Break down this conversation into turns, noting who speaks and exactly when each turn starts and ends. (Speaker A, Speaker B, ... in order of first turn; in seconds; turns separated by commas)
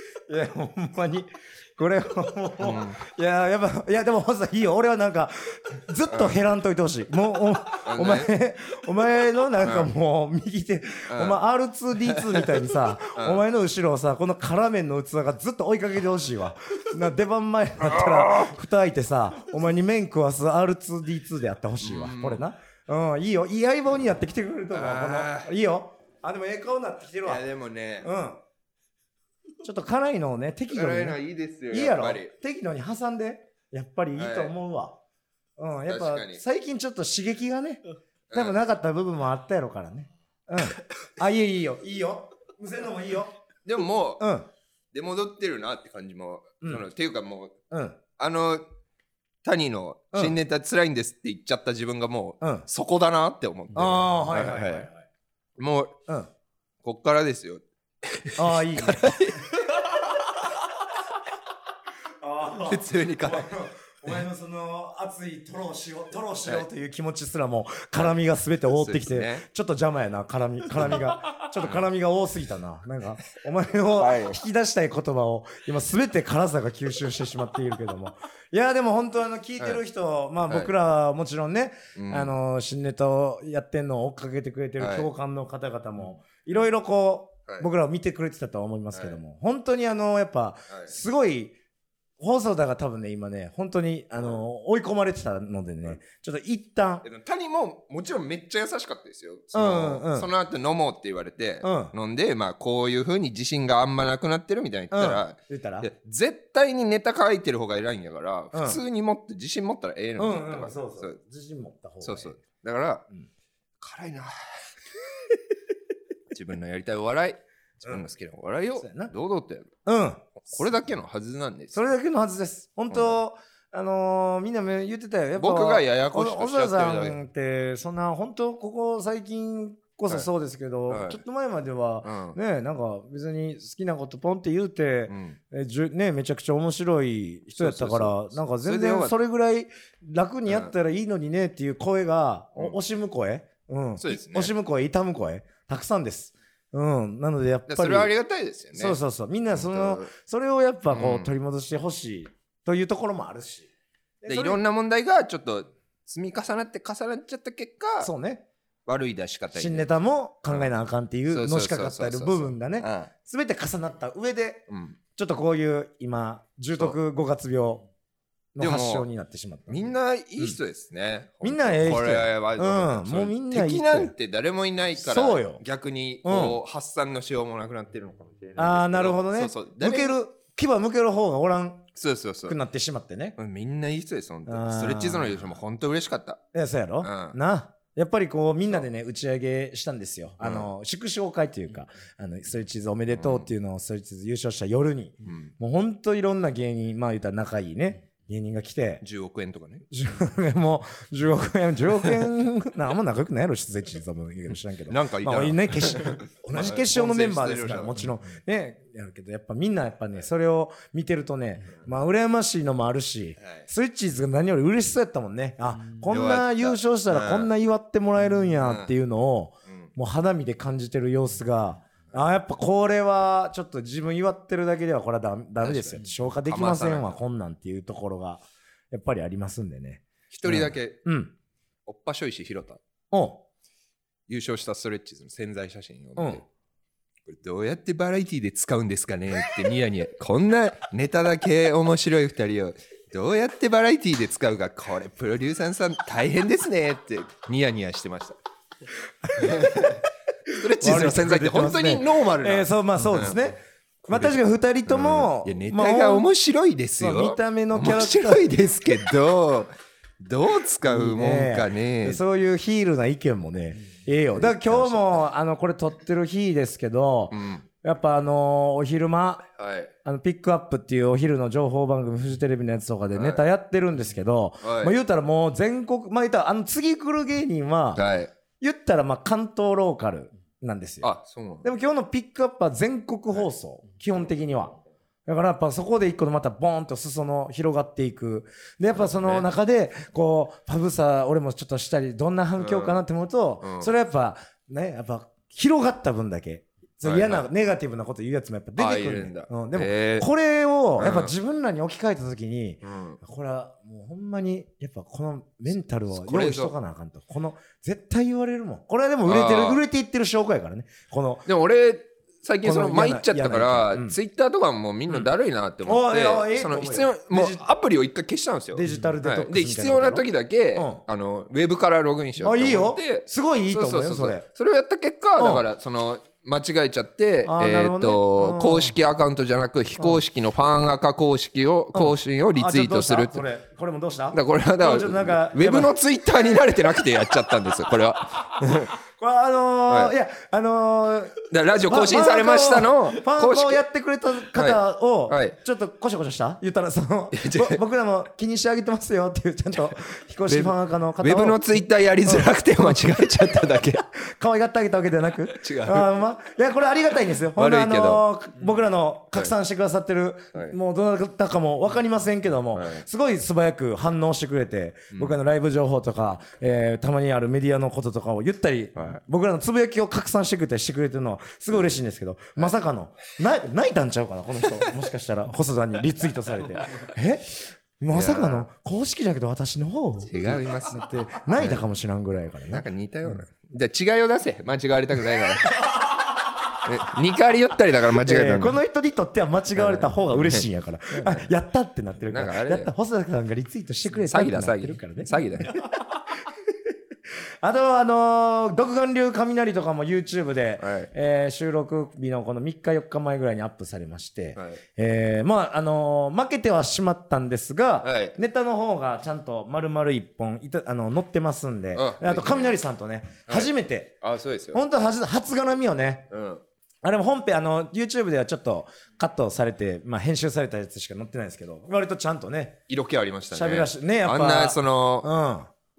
Speaker A: 0.3-27.4, Speaker B: 2.6-3.0, Speaker B: 6.1-6.4, Speaker B: 7.8-8.3, Speaker B: 9.6-9.9, Speaker B: 11.1-11.4, Speaker B: 12.0-12.6, Speaker B: 13.2-13.4, Speaker B: 17.8-18.6, Speaker B: 21.8-22.4, Speaker B: 24.7-25.5, Speaker B: 27.2-28.1, Speaker A: 28.0-28.4, Speaker A: 29.6-31.2, Speaker B: 30.7-32.3, Speaker A: 31.7-35.0, Speaker B: 34.1-34.5, Speaker A: 35.6-37.8, Speaker B: 35.9-36.4, Speaker B: 38.3-38.5, Speaker A: 38.3-43.4, Speaker B: 43.6-44.2, Speaker A: 44.2-44.5, Speaker B: 44.9-47.5, Speaker A: 47.7-48.0, Speaker B: 48.2-48.6, Speaker B: 49.4-54.9, Speaker A: 53.8-55.0, Speaker B: 55.6-56.0, Speaker B: 56.8-59.8, Speaker A: 58.4-59.4, Speaker A: 62.2-91.5, Speaker B: 62.6-63.5, Speaker B: 68.7-69.5, Speaker B: 71.6-71.8, Speaker B: 74.0-74.4, Speaker B: 82.0-82.3, Speaker B: 84.8-85.1, Speaker A: 92.2-97.0, Speaker B: 97.0-111.2, Speaker A: 99.5-100.3, Speaker A: 101.6-101.9, Speaker A: 104.9-105.9, Speaker A: 108.5-108.8, Speaker A: 110.2-112.4, Speaker B: 112.0-113.0, Speaker B: 113.8-114.3, Speaker B: 116.3-119.7, Speaker A: 118.8-119.1, Speaker A: 119.8-120.7, Speaker B: 120.4-121.9, Speaker A: 121.7-148.1, Speaker B: 122.9-123.2, Speaker B: 125.4-127.2, Speaker B: 130.9-131.2, Speaker B: 132.0-132.4, Speaker B: 135.1-135.4, Speaker B: 137.6-139.2, Speaker B: 144.0-144.5, Speaker B: 147.7-149.0, Speaker A: 148.7-153.7, Speaker B: 149.5-150.1, Speaker B: 150.9-151.3, Speaker A: 154.2-154.6, Speaker B: 154.3-158.1, Speaker A: 158.0-158.4, Speaker B: 158.9-159.9, Speaker A: 159.6-164.6, Speaker B: 161.3-163.1, Speaker B: 164.7-165.0, Speaker A: 165.2-167.8, Speaker A: 168.6-169.8, Speaker B: 168.6-169.1, Speaker B: 169.7-180.2, Speaker A: 171.4-174.1, Speaker A: 175.0-175.6, Speaker A: 176.2-176.6, Speaker A: 178.6-181.9, Speaker B: 181.9-182.6, Speaker A: 182.5-183.4, Speaker B: 183.4-186.4, Speaker A: 184.5-185.5, Speaker A: 186.5-199.0, Speaker B: 187.0-187.4, Speaker B: 190.4-190.7, Speaker B: 193.1-193.5, Speaker B: 195.2-195.5, Speaker B: 199.0-199.8, Speaker A: 199.9-231.3, Speaker B: 204.9-208.1, Speaker B: 216.1-217.5, Speaker B: 218.6-218.9, Speaker B: 225.6-227.2, Speaker B: 230.3-231.0, Speaker B: 231.9-232.8, Speaker A: 233.1-233.4, Speaker B: 234.3-236.4, Speaker A: 236.2-236.4, Speaker B: 237.3-248.4, Speaker A: 249.3-250.0, Speaker B: 249.3-253.4, Speaker A: 250.5-256.3, Speaker B: 254.9-262.2, Speaker A: 257.0-258.5, Speaker A: 260.9-269.5, Speaker B: 264.3-265.2, Speaker B: 267.3-267.6, Speaker B: 269.6-269.9, Speaker A: 270.1-278.0, Speaker B: 273.1-273.4, Speaker B: 274.6-274.9, Speaker B: 277.9-278.3, Speaker A: 278.6-281.1, Speaker B: 281.0-281.7, Speaker A: 281.6-311.5, Speaker B: 288.9-289.5, Speaker B: 292.6-293.0, Speaker B: 293.6-293.9, Speaker B: 297.0-297.5, Speaker B: 298.8-300.3, Speaker B: 301.0-301.3, Speaker B: 302.8-303.2, Speaker B: 306.1-306.7, Speaker B: 309.2-309.8, Speaker B: 311.5-333.4, Speaker A: 312.6-314.2, Speaker A: 315.9-317.6, Speaker A: 318.7-321.0, Speaker A: 322.4-324.5, Speaker A: 325.4-325.6, Speaker A: 327.5-329.0, Speaker A: 331.9-335.9, Speaker B: 334.3-339.0, Speaker A: 339.2-353.0, Speaker B: 339.9-340.1, Speaker B: 341.5-343.8, Speaker B: 344.5-345.6, Speaker B: 347.3-347.8, Speaker B: 350.5-354.1, Speaker A: 354.1-383.4, Speaker B: 355.5-356.1, Speaker B: 357.6-358.2, Speaker B: 362.8-363.1, Speaker B: 365.1-365.4, Speaker B: 378.1-378.7, Speaker B: 380.3-381.8, Speaker B: 382.6-385.9, Speaker B: 386.8-388.8, Speaker A: 388.2-396.5, Speaker B: 389.8-391.5, Speaker B: 392.3-392.9, Speaker B: 394.1-395.7, Speaker A: 397.6-414.1, Speaker B: 400.8-401.1, Speaker B: 408.0-408.4, Speaker B: 411.9-412.8, Speaker B: 414.2-414.8, Speaker A: 414.7-416.3, Speaker B: 416.3-416.6, Speaker A: 417.0-422.8, Speaker B: 422.9-425.3, Speaker A: 423.5-425.7